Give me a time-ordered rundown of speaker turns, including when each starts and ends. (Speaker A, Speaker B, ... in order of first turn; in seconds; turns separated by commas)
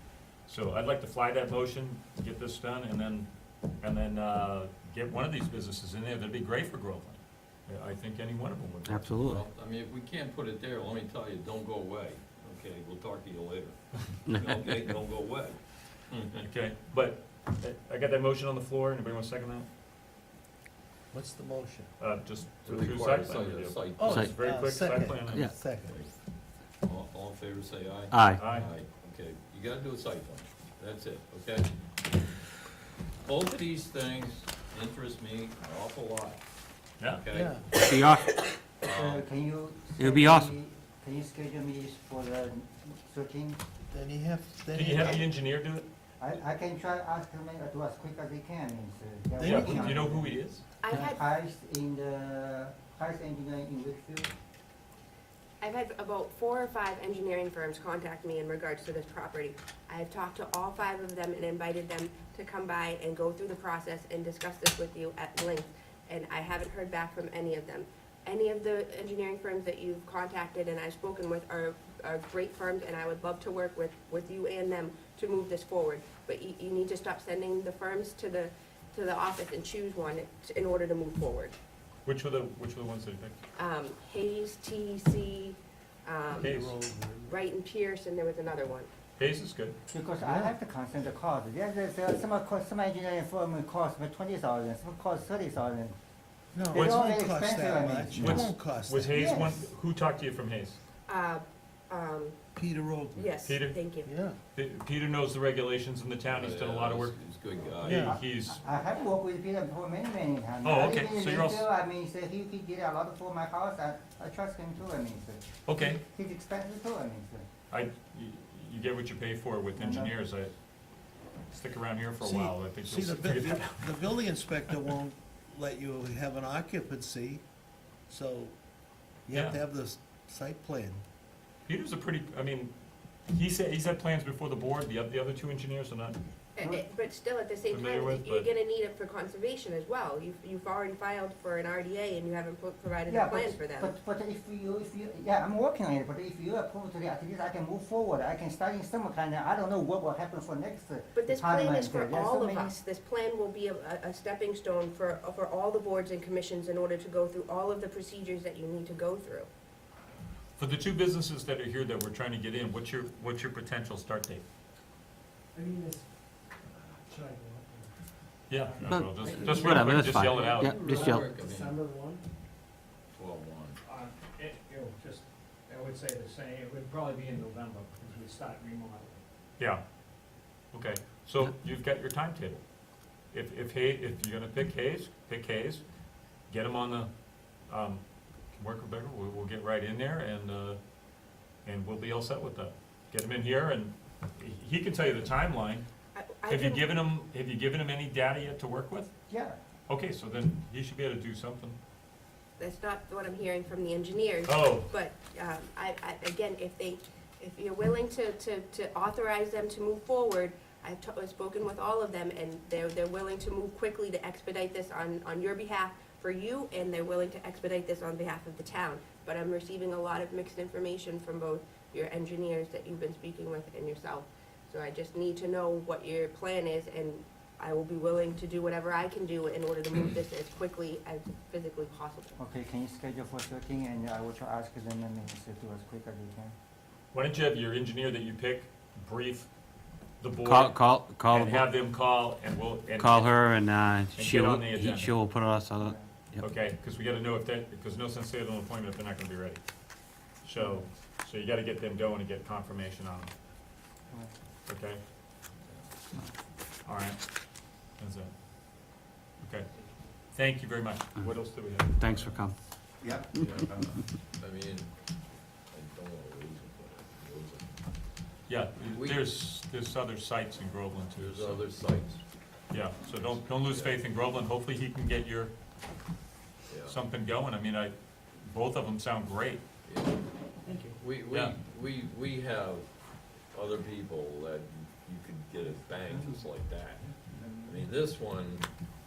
Speaker A: 0.5-3.3, Speaker A: 3.8-9.1, Speaker B: 8.9-9.4, Speaker C: 9.2-15.6, Speaker B: 14.3-14.5, Speaker C: 16.1-16.4, Speaker A: 16.4-19.7, Speaker D: 21.1-21.9, Speaker A: 22.0-25.5, Speaker C: 22.6-24.3, Speaker D: 24.0-26.0, Speaker C: 25.8-26.1, Speaker C: 26.8-31.7, Speaker B: 28.1-28.4, Speaker A: 28.4-28.7, Speaker C: 33.2-36.4, Speaker C: 37.1-38.0, Speaker D: 37.3-37.7, Speaker B: 37.7-38.3, Speaker E: 38.8-43.6, Speaker C: 38.8-39.2, Speaker B: 40.0-40.5, Speaker D: 43.9-45.2, Speaker A: 44.7-45.9, Speaker E: 46.2-50.4, Speaker D: 49.4-49.9, Speaker A: 49.4-50.6, Speaker F: 50.8-51.2, Speaker E: 50.9-54.3, Speaker F: 55.6-81.5, Speaker A: 82.0-83.4, Speaker F: 83.6-86.5, Speaker D: 86.3-87.4, Speaker A: 86.4-86.7, Speaker F: 87.2-88.9, Speaker A: 89.2-89.8, Speaker E: 89.9-96.0, Speaker D: 90.2-90.5, Speaker D: 96.5-99.1, Speaker E: 96.7-98.5, Speaker A: 96.7-97.0, Speaker A: 98.2-100.8, Speaker E: 99.1-99.6, Speaker F: 101.1-102.4, Speaker D: 102.5-103.4, Speaker F: 103.1-104.1, Speaker A: 103.4-103.7, Speaker D: 104.0-104.4, Speaker A: 104.5-107.2, Speaker C: 106.4-108.1, Speaker D: 107.8-108.2, Speaker A: 107.8-108.6, Speaker E: 107.8-117.5, Speaker A: 110.6-111.7, Speaker A: 115.7-116.0, Speaker A: 117.7-120.5, Speaker E: 119.7-120.1, Speaker A: 121.5-123.9, Speaker D: 122.2-127.4, Speaker D: 128.1-128.6, Speaker D: 129.3-131.0, Speaker A: 129.3-129.6, Speaker A: 131.7-132.7, Speaker A: 133.3-136.2, Speaker F: 136.6-143.9, Speaker A: 137.7-138.5, Speaker E: 143.1-152.7, Speaker F: 151.1-159.5, Speaker A: 160.6-164.4, Speaker G: 165.5-166.1, Speaker G: 167.1-167.9, Speaker A: 168.5-170.8, Speaker G: 168.5-172.2, Speaker B: 168.9-171.2, Speaker C: 170.1-171.8, Speaker C: 173.1-173.8, Speaker G: 173.8-179.2, Speaker A: 180.7-182.6, Speaker A: 183.3-185.8, Speaker A: 186.5-187.1, Speaker A: 187.7-188.0, Speaker A: 188.5-190.8, Speaker A: 191.6-195.8, Speaker F: 196.1-196.9, Speaker A: 196.5-199.1, Speaker E: 199.3-199.6, Speaker A: 199.9-201.8, Speaker F: 202.6-232.4, Speaker A: 204.4-204.9, Speaker E: 232.4-236.5, Speaker A: 237.1-239.5, Speaker A: 240.2-243.4, Speaker B: 240.4-241.7, Speaker B: 243.0-246.4, Speaker A: 244.1-245.2, Speaker E: 245.8-246.1, Speaker A: 246.4-249.6, Speaker A: 250.4-253.3, Speaker E: 250.6-250.8, Speaker A: 254.7-255.0, Speaker A: 256.8-257.3, Speaker A: 258.0-258.3, Speaker A: 259.4-259.7, Speaker A: 260.3-262.4, Speaker B: 262.0-262.5, Speaker E: 263.0-264.0, Speaker C: 263.4-263.7, Speaker C: 264.3-264.9, Speaker C: 265.7-267.8, Speaker A: 268.5-271.6, Speaker C: 268.9-269.3, Speaker C: 271.1-272.2, Speaker A: 272.7-275.5, Speaker C: 273.0-274.0, Speaker C: 276.7-277.0, Speaker A: 276.9-279.6, Speaker C: 279.8-280.2, Speaker G: 280.6-281.0, Speaker C: 280.9-282.9, Speaker C: 283.5-287.1, Speaker C: 287.6-288.6